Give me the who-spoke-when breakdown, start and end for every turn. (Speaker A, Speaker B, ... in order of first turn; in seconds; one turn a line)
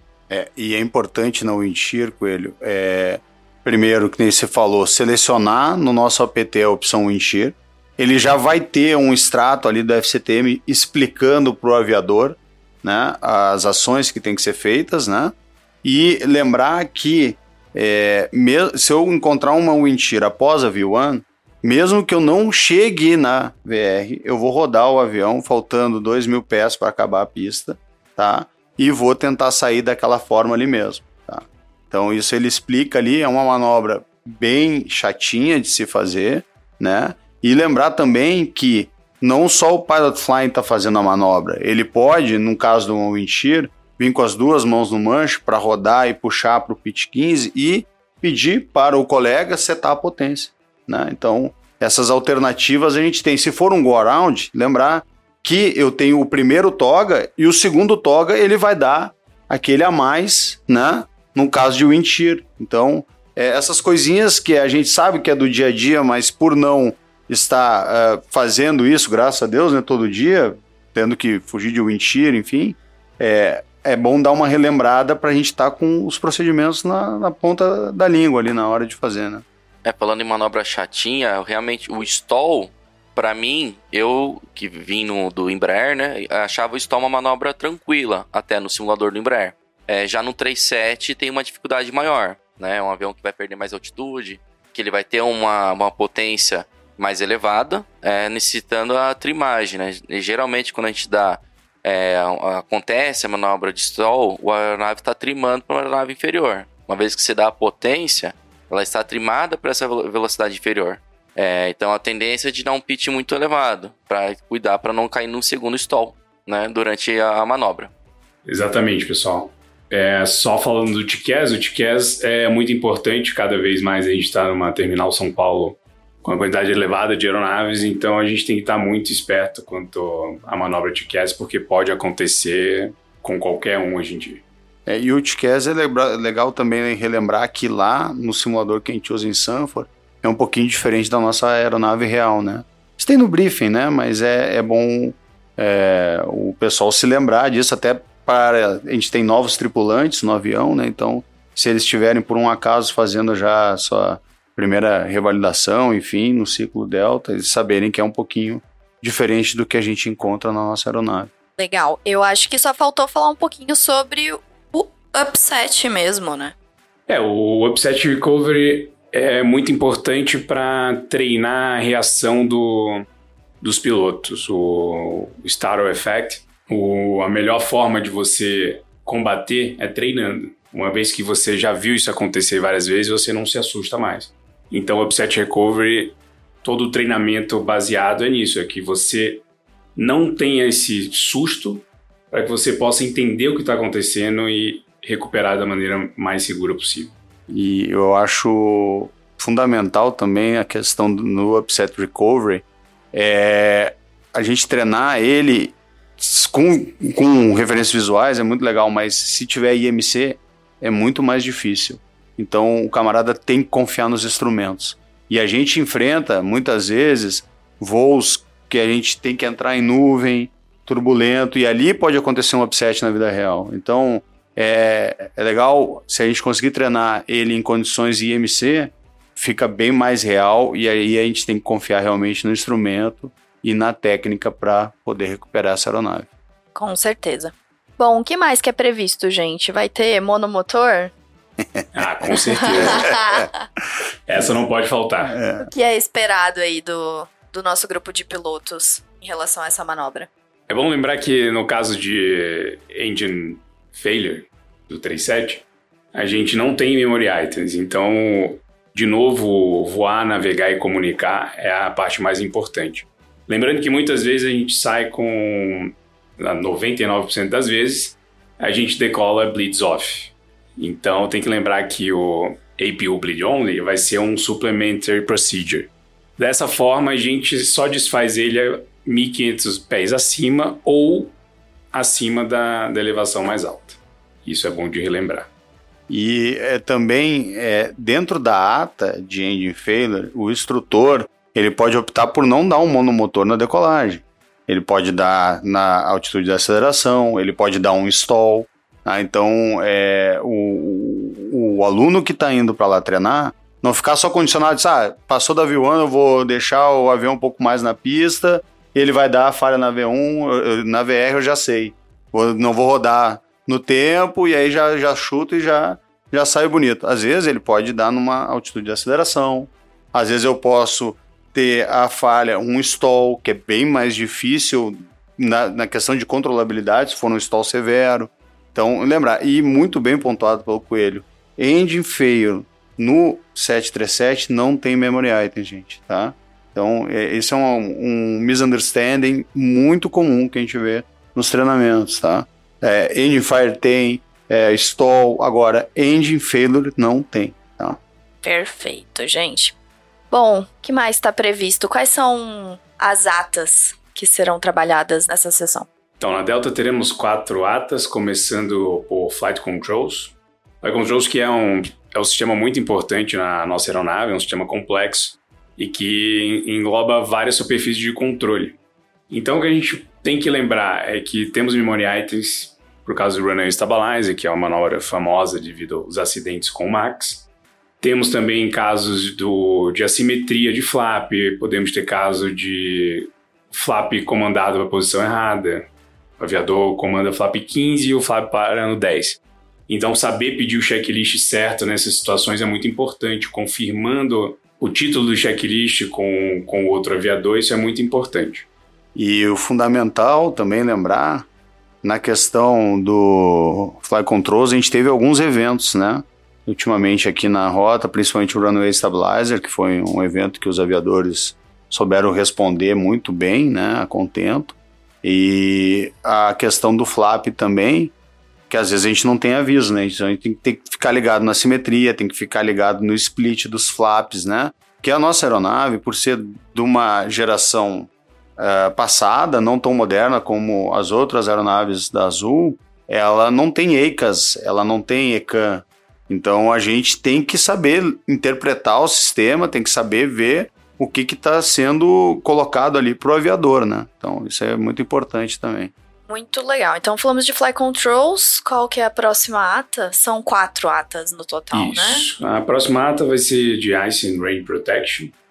Speaker A: 0.3-79.4
Speaker B: 79.8-117.9
Speaker C: 118.5-134.4
Speaker A: 134.9-161.3
Speaker D: 161.6-166.5
Speaker C: 167.1-173.0
Speaker C: 173.6-189.4
Speaker C: 189.9-197.1
Speaker A: 197.5-236.3
Speaker D: 236.7-241.1
Speaker A: 241.6-243.4
Speaker C: 241.9-243.1
Speaker D: 242.8-243.6
Speaker C: 244.3-245.3
Speaker A: 245.2-245.7
Speaker D: 245.6-250.3
Speaker C: 250.7-281.3
Speaker C: 281.9-285.5
Speaker A: 286.1-348.0
Speaker D: 348.4-349.7
Speaker D: 350.3-355.9
Speaker C: 356.2-368.8
Speaker C: 369.3-377.5
Speaker C: 378.0-398.7
Speaker A: 399.1-401.5
Speaker A: 402.0-418.1
Speaker A: 418.7-445.9
Speaker D: 446.3-452.3
Speaker C: 451.7-455.3